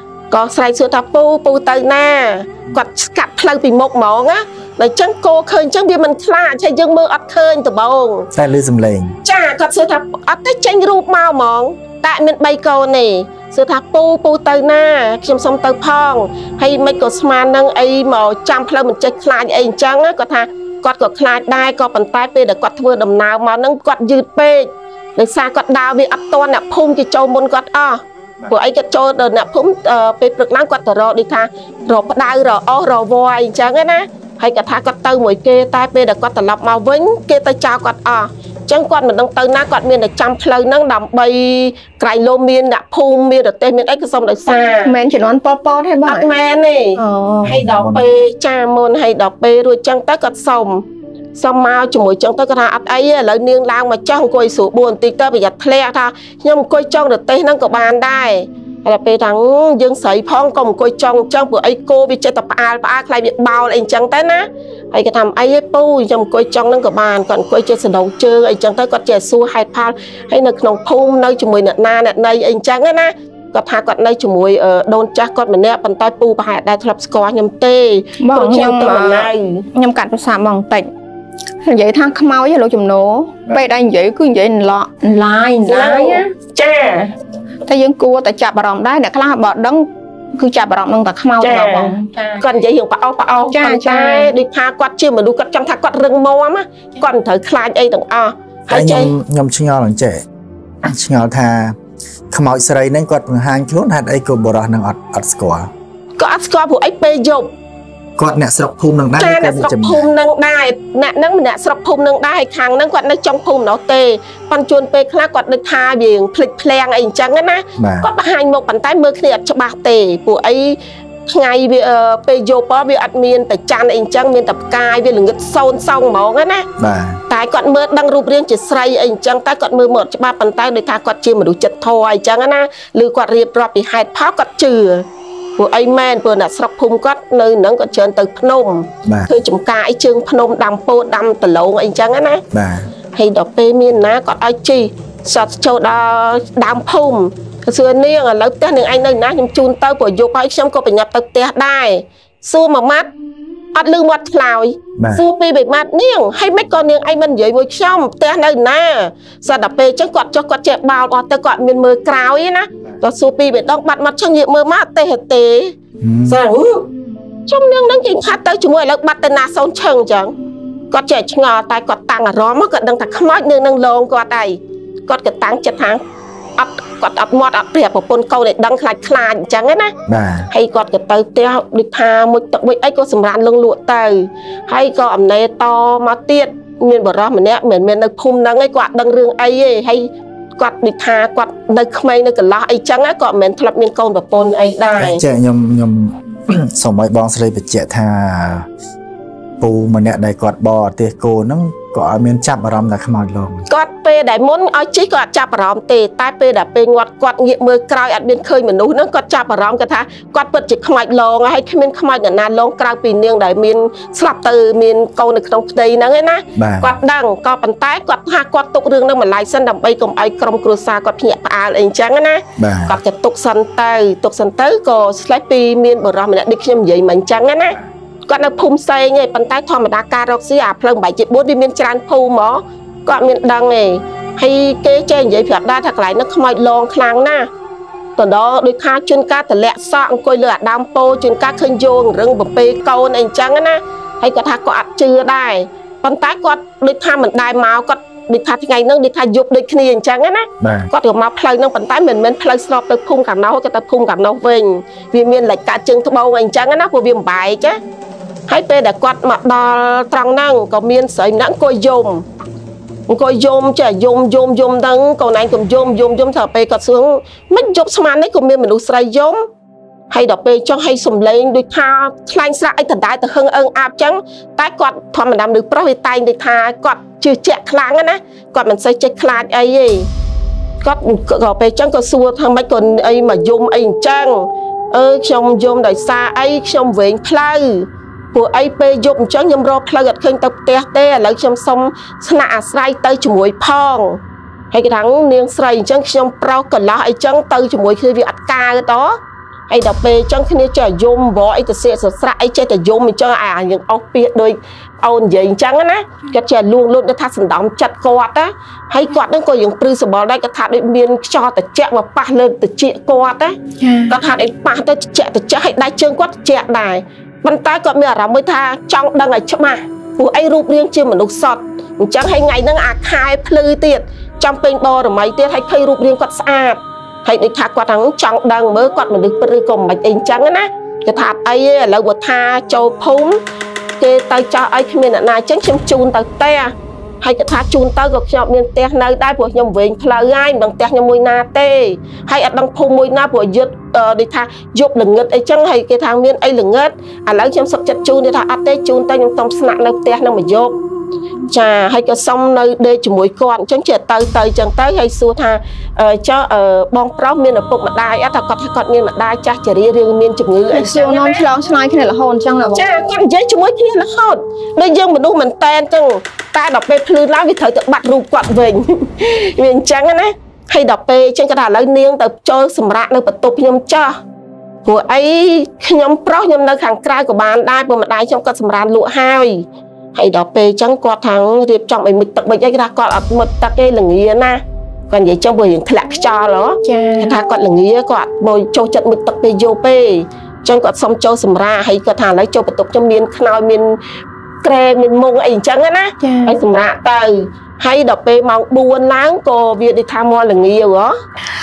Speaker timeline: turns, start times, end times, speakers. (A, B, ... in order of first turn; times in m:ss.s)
0:00.3-0:08.3 A
0:08.3-0:09.2 B
0:09.2-0:44.9 A
0:44.8-0:46.3 C
0:46.0-1:19.6 A
0:47.0-0:47.5 C
0:47.4-0:48.1 B
1:18.2-1:20.9 C
1:21.6-1:26.3 C
1:25.6-1:27.1 A
1:27.6-1:32.4 C
1:31.4-1:39.1 A
1:33.5-1:34.3 C
1:38.7-1:40.2 B
1:40.8-1:41.8 B
1:42.3-1:45.7 B
1:46.2-1:47.5 A
1:48.2-1:50.0 B
1:49.2-2:06.7 A
1:57.8-1:58.1 B
2:06.8-2:07.2 B
2:07.3-2:15.0 A
2:15.6-2:22.4 A
2:19.0-2:19.3 B
2:22.5-2:22.9 B
2:23.1-2:33.1 A
2:33.7-2:45.8 A
2:35.0-2:35.2 B
2:46.0-2:46.4 B
2:46.3-2:46.8 A
2:47.5-2:50.3 A
2:50.9-2:56.0 A
2:56.6-2:59.9 A
3:00.1-3:00.5 B
3:00.5-3:15.2 A
3:15.0-3:18.6 B
3:19.6-3:23.6 B
3:23.7-3:57.5 A
3:36.5-3:37.0 B
3:42.6-3:43.0 B
3:58.2-4:17.8 A
4:10.6-4:10.9 B
4:18.5-4:22.2 A
4:23.1-4:29.4 A
4:30.1-4:40.1 A
4:40.8-4:54.2 A
4:54.7-4:59.2 A
4:59.7-5:33.4 A
5:13.8-5:14.1 C
5:34.0-5:50.8 A
5:51.5-6:01.4 A
6:00.7-6:02.8 C
6:02.7-6:14.2 A
6:14.8-6:34.0 A
6:26.8-6:27.3 C
6:34.6-6:41.1 A
6:36.2-6:36.6 C